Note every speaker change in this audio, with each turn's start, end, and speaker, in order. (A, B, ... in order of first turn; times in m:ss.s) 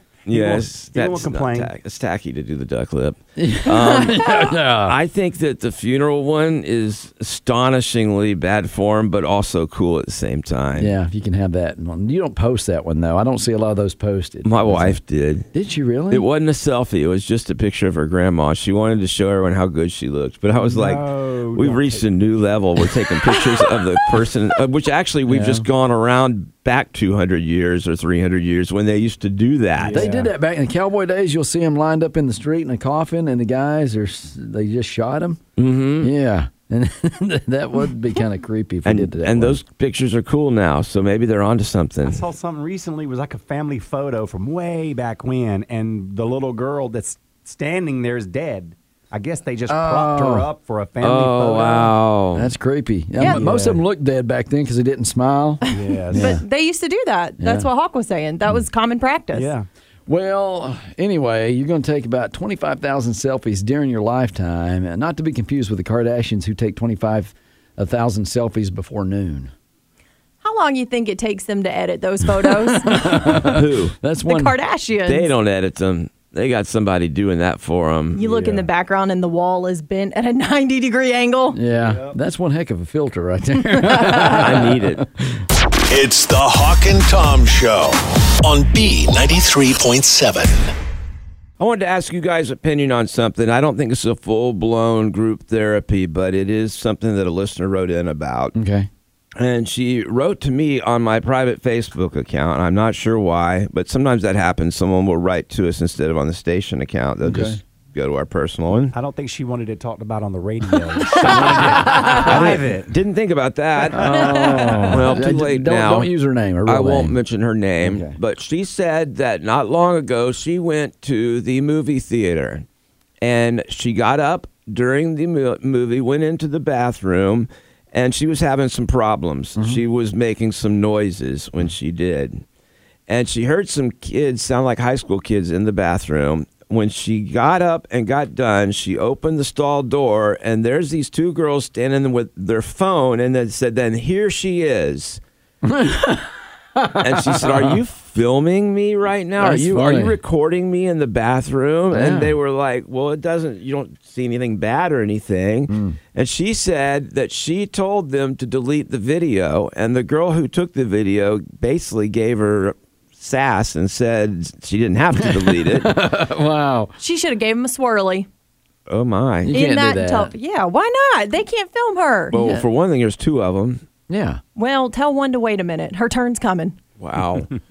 0:00.3-0:10.9 A
0:00.3-0:01.7 B
0:03.4-0:05.0 C
0:10.8-0:15.0 C
0:14.4-0:15.4 A
0:15.5-0:16.2 C
0:16.1-0:30.1 A
0:20.6-0:22.0 B
0:25.3-0:25.6 C
0:29.8-0:30.3 B
0:29.9-0:35.4 C
0:35.6-0:36.1 A
0:36.0-0:39.6 C
0:38.9-0:42.2 A
0:42.0-0:51.9 B
0:49.7-0:50.5 C
0:51.0-0:52.5 A
0:52.4-0:56.4 C
0:53.2-0:53.8 B
0:55.7-0:56.4 B
0:56.1-0:59.5 D
0:57.4-0:57.7 C
0:59.3-0:59.7 B
1:00.1-1:09.5 C
1:10.4-1:13.4 D
1:12.7-1:14.6 C
1:13.4-1:13.9 A
1:14.3-1:15.3 D
1:15.0-1:18.2 A
1:18.1-1:21.6 D
1:18.2-1:18.6 B
1:21.5-1:25.4 C
1:21.8-1:22.2 B
1:23.8-1:24.3 D
1:24.3-1:25.0 A
1:25.9-1:30.7 E
1:31.6-1:38.5 A
1:38.5-1:38.9 C
1:39.4-1:48.9 A
1:47.2-1:47.6 C
1:48.9-1:52.9 B
1:51.3-1:52.4 C
1:51.4-1:56.1 A
1:53.9-1:57.2 C
1:56.6-2:02.6 A
1:57.8-1:58.2 C
2:03.2-2:12.4 A
2:09.6-2:09.8 C
2:13.1-2:25.2 A
2:25.6-2:27.8 C
2:27.0-2:45.9 A
2:29.4-2:30.2 C
2:31.9-2:32.4 C
2:35.7-2:36.0 C
2:45.2-2:46.9 C
2:47.0-2:48.3 D
2:48.9-2:49.5 A
2:49.4-2:50.3 C
2:49.5-2:52.3 D
2:52.3-2:53.8 A
2:52.3-2:52.6 C
2:54.1-2:54.4 C
2:54.6-2:56.8 D
2:57.0-2:57.5 A